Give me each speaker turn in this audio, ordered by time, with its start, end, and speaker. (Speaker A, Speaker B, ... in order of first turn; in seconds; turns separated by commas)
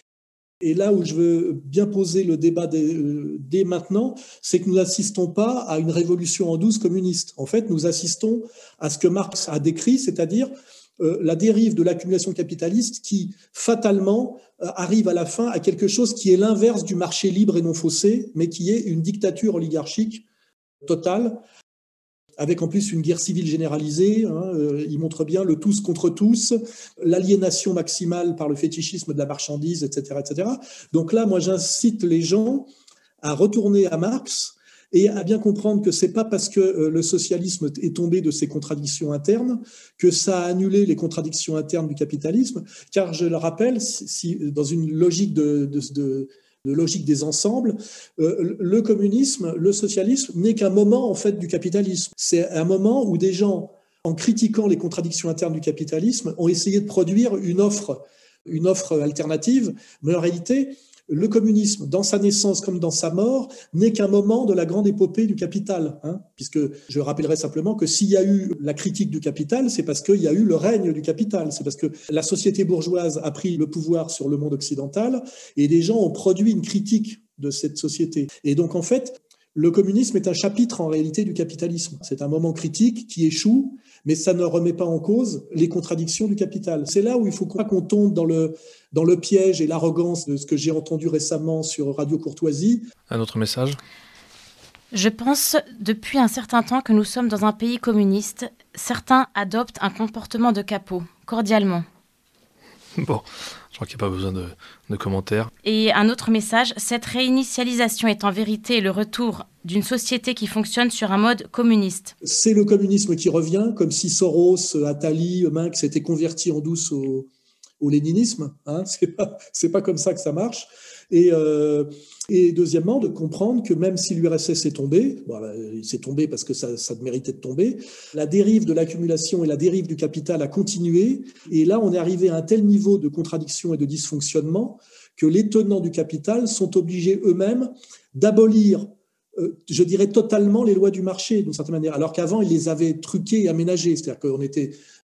Speaker A: 0.6-20.2, Speaker A: 20.8-21.4, Speaker A: 22.4-32.7, Speaker A: 33.2-92.9, Speaker B: 93.1-93.8, Speaker C: 94.9-101.8, Speaker B: 103.0-105.5, Speaker C: 105.6-112.1, Speaker A: 112.2-117.3, Speaker A: 117.8-144.8